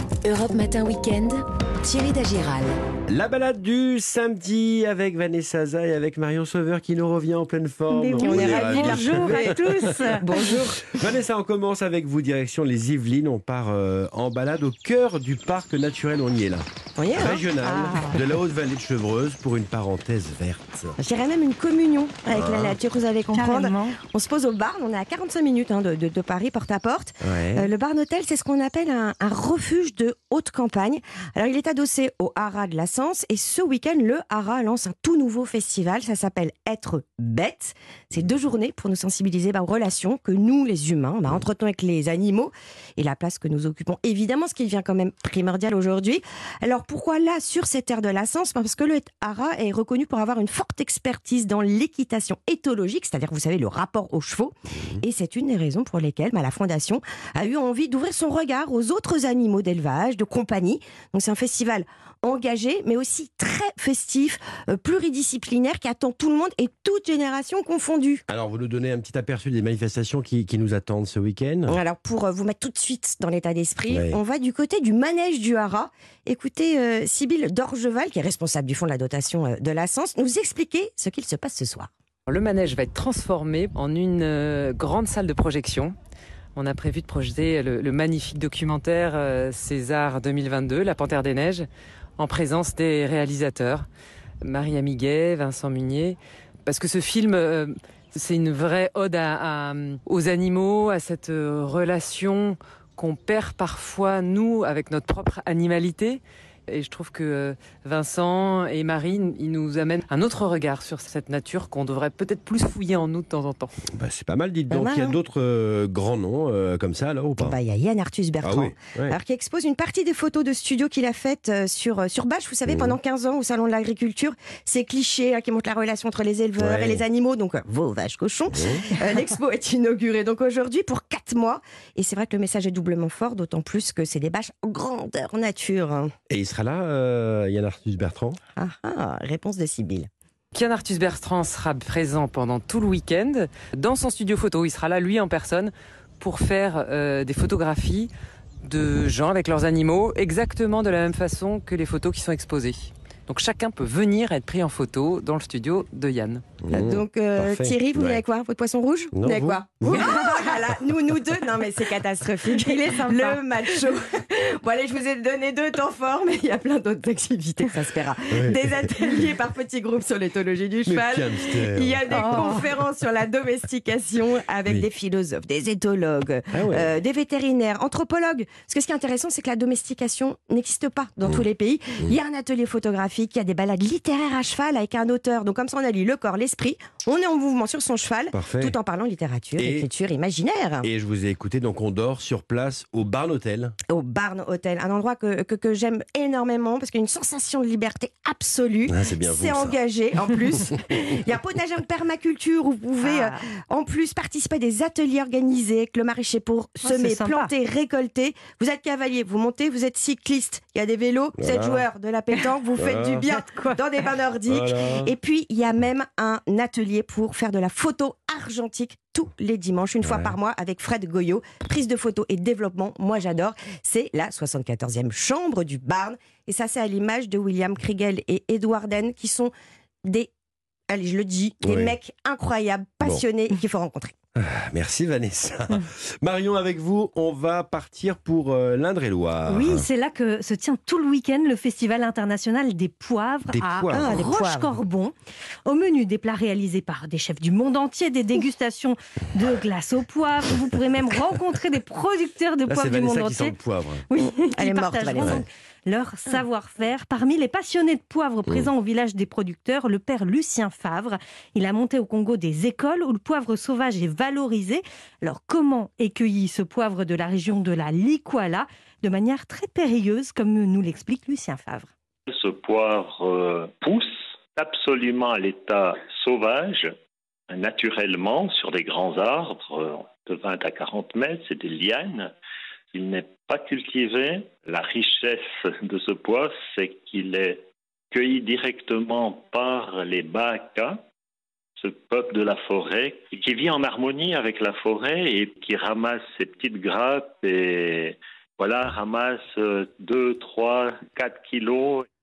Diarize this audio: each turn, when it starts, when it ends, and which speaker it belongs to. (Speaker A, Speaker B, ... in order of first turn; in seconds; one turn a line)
Speaker A: 0.2-2.8
Speaker B: 3.1-21.0
Speaker C: 7.9-10.5
Speaker D: 8.2-9.6
Speaker D: 10.2-10.8
Speaker D: 17.0-18.1
Speaker D: 21.0-68.2
Speaker B: 22.3-22.8
Speaker C: 23.3-24.0
Speaker B: 27.2-27.7
Speaker B: 68.3-71.8
Speaker D: 71.7-81.9
Speaker B: 73.9-74.2
Speaker E: 82.3-85.9
Speaker E: 86.6-91.7
Speaker E: 92.2-93.9
Speaker E: 94.4-113.7
Speaker B: 113.9-117.6
Speaker D: 114.7-115.2
Speaker D: 117.4-136.1
Speaker B: 118.4-119.2
Speaker B: 122.7-123.0
Speaker B: 126.6-127.0
Speaker B: 128.5-128.9
Speaker B: 136.3-138.4
Speaker D: 138.6-140.1
Speaker E: 140.5-148.1
Speaker E: 148.6-156.4
Speaker B: 156.6-158.2
Speaker D: 156.7-190.9
Speaker B: 159.1-160.1
Speaker B: 168.3-168.9
Speaker B: 170.9-172.2
Speaker C: 172.1-172.6
Speaker B: 176.5-176.9
Speaker B: 188.3-188.8
Speaker B: 189.6-189.9
Speaker B: 190.8-193.8
Speaker D: 193.9-229.5
Speaker B: 198.9-199.8
Speaker C: 203.0-203.4
Speaker C: 206.8-207.5
Speaker B: 211.4-211.9
Speaker B: 212.8-213.3
Speaker B: 214.5-215.1
Speaker B: 220.0-220.3
Speaker D: 230.9-234.1
Speaker B: 231.6-232.0
Speaker B: 234.4-239.9
Speaker C: 239.5-245.1
Speaker B: 243.5-244.2
Speaker D: 243.9-244.7
Speaker C: 245.7-253.6
Speaker B: 252.7-254.0
Speaker C: 254.1-271.9
Speaker D: 254.2-255.4
Speaker B: 255.2-255.4
Speaker F: 272.3-276.9
Speaker F: 277.5-282.3
Speaker F: 282.9-291.0
Speaker F: 291.8-302.1